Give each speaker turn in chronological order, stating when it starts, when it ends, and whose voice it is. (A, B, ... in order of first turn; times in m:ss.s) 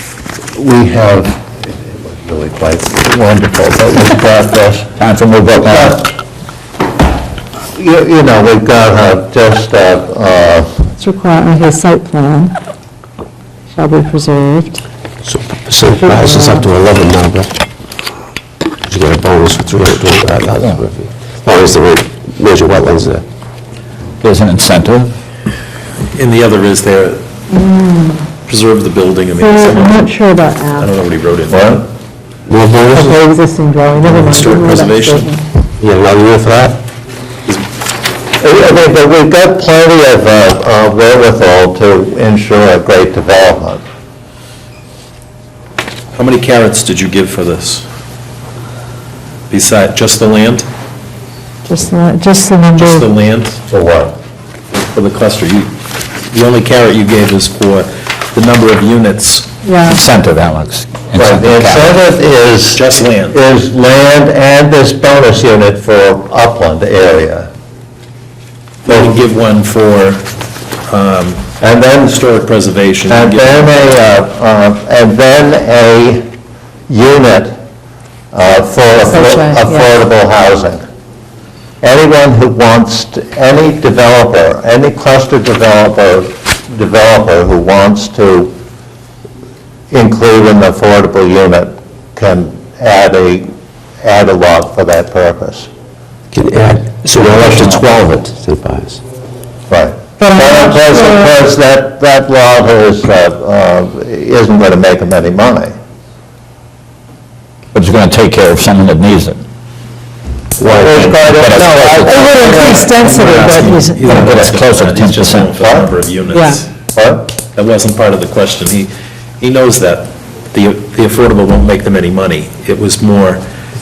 0:00.6-0:04.9 A
0:05.0-0:06.1 B
0:05.7-0:06.1 A
0:07.8-0:10.9 A
0:11.0-0:12.6 C
0:13.7-0:14.8 C
0:15.2-0:17.5 D
0:16.0-0:16.7 C
0:18.9-0:23.2 D
0:24.2-0:25.2 B
0:26.1-0:27.3 E
0:27.5-0:28.3 C
0:28.5-0:30.1 E
0:29.4-0:30.9 C
0:30.8-0:31.9 E
0:31.5-0:31.8 A
0:32.5-0:33.2 D
0:32.9-0:35.4 C
0:34.1-0:35.3 E
0:35.8-0:36.8 D
0:38.4-0:43.8 A
0:46.2-0:47.9 E
0:49.5-0:50.7 E
0:51.7-0:53.1 C
0:52.8-0:53.6 E
0:53.7-0:54.2 A
0:54.8-0:55.7 E
0:56.3-0:59.5 E
0:59.6-1:00.0 C
0:59.9-1:02.0 B
1:01.2-1:07.5 A
1:02.7-1:03.4 E
1:08.8-1:10.3 E
1:10.8-1:11.5 E
1:11.6-1:12.2 A
1:12.0-1:14.0 E
1:13.1-1:16.3 A
1:16.9-1:17.6 A
1:18.3-1:20.8 A
1:19.0-1:19.9 C
1:21.8-1:28.5 A
1:29.9-1:33.5 A
1:34.0-1:35.7 A
1:36.3-1:39.0 D
1:39.7-1:45.7 A
1:40.2-1:41.3 C
1:47.7-1:49.4 B
1:50.6-1:51.5 D
1:50.6-1:52.9 A
1:51.3-1:52.6 B
1:52.0-1:54.4 C
1:52.6-1:56.7 E
1:54.0-1:55.6 B
1:55.6-1:55.9 A
1:56.3-1:56.6 C
1:56.9-1:57.3 A
1:57.5-2:03.4 E